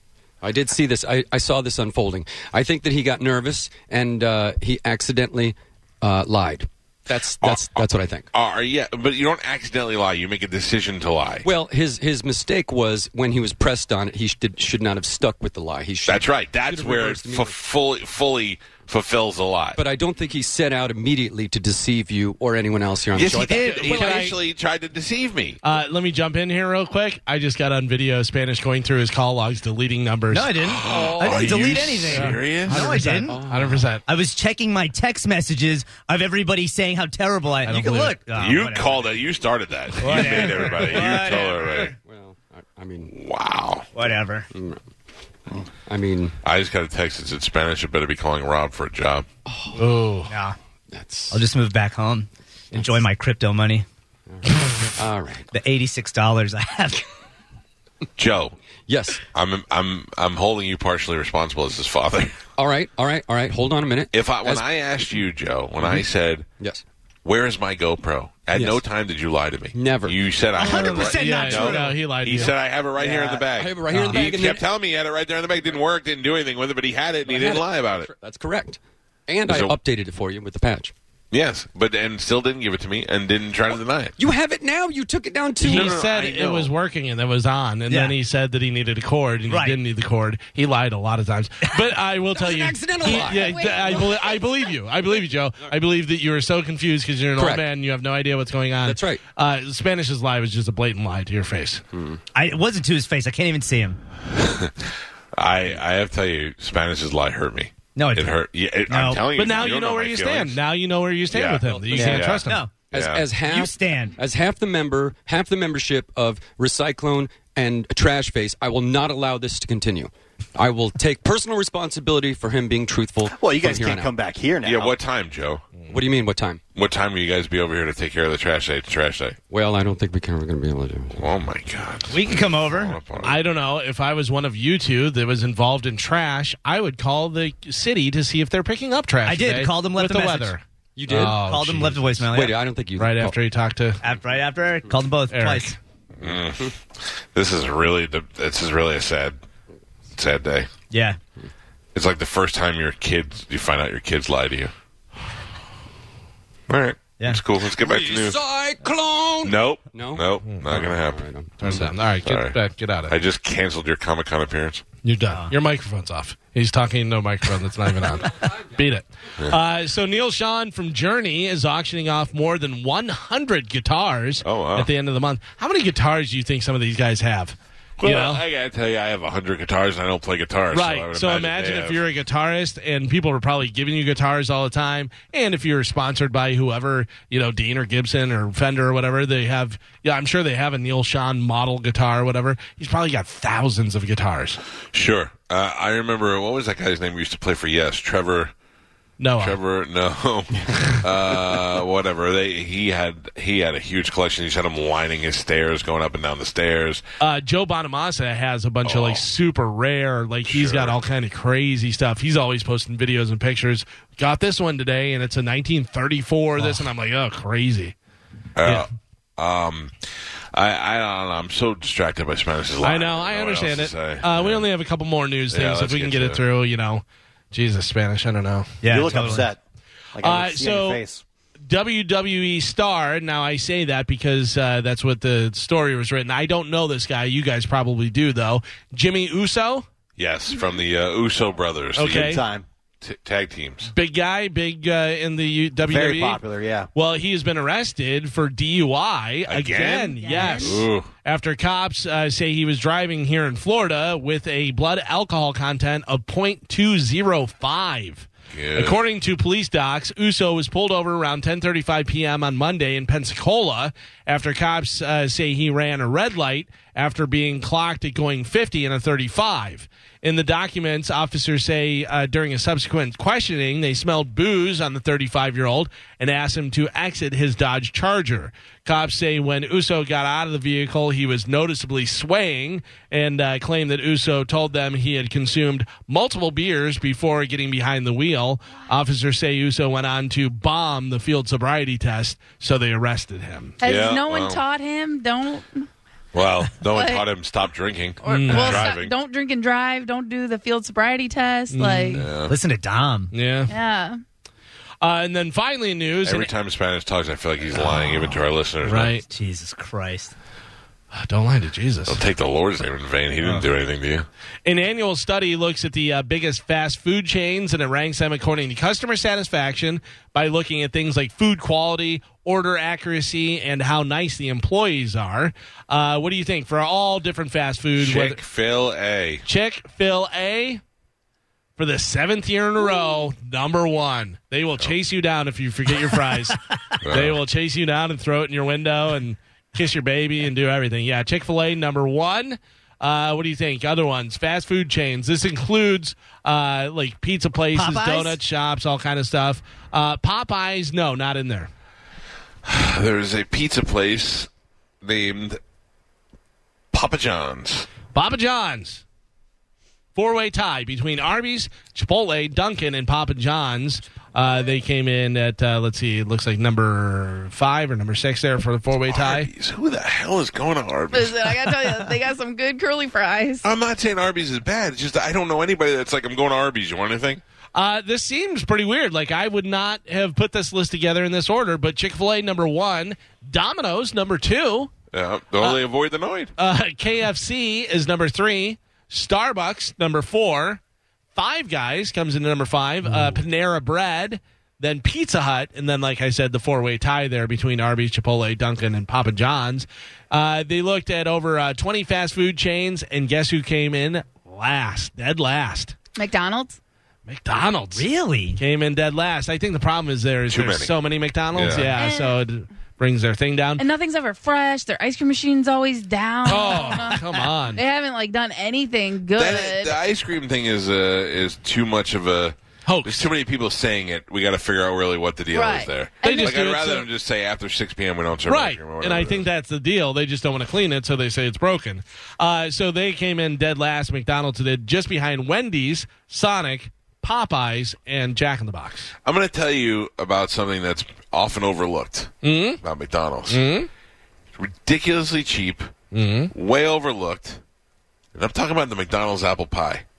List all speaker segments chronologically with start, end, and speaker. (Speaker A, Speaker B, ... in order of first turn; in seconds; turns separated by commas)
Speaker A: 0.4-8.3, Speaker B: 7.4-11.5, Speaker A: 11.4-17.6, Speaker B: 16.1-19.8, Speaker A: 19.8-24.4, Speaker B: 23.1-25.6, Speaker C: 23.6-24.4, Speaker C: 25.6-30.6, Speaker D: 30.3-33.4, Speaker B: 30.6-33.0, Speaker A: 30.8-31.8, Speaker C: 32.1-34.0, Speaker A: 33.3-33.9, Speaker D: 34.1-39.1, Speaker C: 37.7-38.2, Speaker B: 38.4-42.0, Speaker D: 40.0-42.0, Speaker A: 42.0-43.1, Speaker B: 43.1-43.9, Speaker D: 44.0-44.5, Speaker A: 44.5-44.8, Speaker A: 45.9-46.4, Speaker B: 46.4-49.3, Speaker A: 49.5-49.9, Speaker C: 49.8-50.3, Speaker D: 50.3-50.6, Speaker A: 50.9-51.4, Speaker D: 51.3-53.9, Speaker A: 54.3-55.5, Speaker D: 55.5-57.1, Speaker B: 58.2-58.6, Speaker A: 58.9-59.2, Speaker B: 59.3-62.5, Speaker A: 62.6-64.7, Speaker B: 64.1-66.5, Speaker B: 67.2-78.1, Speaker A: 68.5-68.8, Speaker A: 69.7-70.2, Speaker D: 70.6-72.0, Speaker C: 70.7-72.5, Speaker A: 73.0-74.7, Speaker D: 73.9-74.3, Speaker A: 77.2-80.9, Speaker B: 79.5-79.8, Speaker B: 81.3-84.1, Speaker A: 84.2-86.0, Speaker C: 85.6-101.8, Speaker B: 85.6-86.7, Speaker D: 87.9-88.2, Speaker D: 89.5-89.8, Speaker A: 92.3-94.1, Speaker E: 93.0-94.8, Speaker A: 97.4-97.7, Speaker A: 98.8-99.2, Speaker A: 101.9-102.2, Speaker D: 102.3-104.0, Speaker B: 104.3-110.6, Speaker D: 108.0-109.3, Speaker C: 109.3-112.6, Speaker B: 111.3-113.3, Speaker A: 111.7-112.3, Speaker D: 112.5-112.7, Speaker A: 112.9-124.1, Speaker D: 113.4-114.2, Speaker F: 123.3-125.0, Speaker B: 124.6-125.7, Speaker A: 125.9-126.6, Speaker B: 126.8-129.4, Speaker A: 129.5-131.2, Speaker B: 131.2-133.4, Speaker D: 132.1-133.0, Speaker C: 133.2-142.2, Speaker D: 139.3-140.6, Speaker A: 141.0-141.4, Speaker D: 141.1-142.6, Speaker A: 142.3-143.3, Speaker C: 143.0-144.0, Speaker D: 144.0-145.8, Speaker C: 145.3-145.8, Speaker B: 146.2-149.4, Speaker A: 146.2-146.7, Speaker B: 150.2-150.7, Speaker D: 150.9-151.2, Speaker B: 151.9-154.7, Speaker B: 156.7-158.4, Speaker A: 157.7-161.9, Speaker B: 159.4-162.6, Speaker C: 161.6-163.2, Speaker B: 163.1-164.8, Speaker C: 165.0-178.4, Speaker B: 174.4-174.9, Speaker B: 178.0-182.0, Speaker C: 180.7-194.6, Speaker B: 194.9-198.5, Speaker C: 199.2-199.6, Speaker B: 199.4-207.0, Speaker C: 207.2-217.9, Speaker B: 208.8-209.2, Speaker B: 210.5-211.0, Speaker B: 218.6-224.7, Speaker C: 222.8-229.4, Speaker B: 225.5-226.4, Speaker D: 228.8-229.5, Speaker F: 228.9-229.6, Speaker F: 230.2-231.2, Speaker C: 230.2-231.0, Speaker C: 231.7-239.9, Speaker B: 240.2-242.4, Speaker C: 242.0-242.4, Speaker F: 242.1-242.7, Speaker B: 243.0-243.9, Speaker C: 243.9-246.4, Speaker F: 245.9-246.9, Speaker C: 246.9-293.8, Speaker B: 249.5-251.1, Speaker E: 250.2-250.8, Speaker B: 258.5-259.0, Speaker E: 293.8-295.9, Speaker B: 293.8-294.6, Speaker B: 296.3-299.1, Speaker E: 296.8-297.3, Speaker E: 298.2-302.3, Speaker C: 298.3-298.9, Speaker C: 301.7-302.3, Speaker B: 302.1-302.6, Speaker D: 302.5-303.3, Speaker C: 303.3-303.7, Speaker E: 303.7-304.2, Speaker C: 305.0-306.5, Speaker B: 306.2-309.1, Speaker C: 308.8-309.2, Speaker D: 309.3-310.3, Speaker C: 311.1-312.2, Speaker B: 312.1-314.3, Speaker C: 314.6-328.4, Speaker B: 328.0-329.4, Speaker C: 329.5-330.8, Speaker C: 331.8-351.7, Speaker B: 337.0-337.4, Speaker D: 347.8-348.4, Speaker B: 352.6-354.5, Speaker B: 355.0-355.6, Speaker B: 356.9-357.9, Speaker C: 358.1-359.0, Speaker C: 360.1-369.5, Speaker B: 369.1-371.8, Speaker E: 371.1-373.6, Speaker B: 373.6-377.4, Speaker C: 377.8-384.9, Speaker B: 385.1-386.5, Speaker C: 386.6-390.8, Speaker C: 391.4-405.9, Speaker E: 406.2-406.8, Speaker C: 407.3-408.1, Speaker D: 407.9-408.6, Speaker C: 408.6-413.9, Speaker B: 410.5-410.9, Speaker B: 411.6-411.9, Speaker E: 411.9-412.4, Speaker E: 413.8-420.0, Speaker C: 416.4-417.8, Speaker B: 419.3-429.5, Speaker C: 422.9-423.3, Speaker E: 425.5-426.6, Speaker C: 426.2-427.1, Speaker C: 428.5-439.1, Speaker B: 439.2-443.6, Speaker C: 442.4-442.8, Speaker C: 443.5-443.9, Speaker B: 444.6-445.9, Speaker C: 446.1-446.5, Speaker B: 446.5-447.6, Speaker B: 448.4-450.1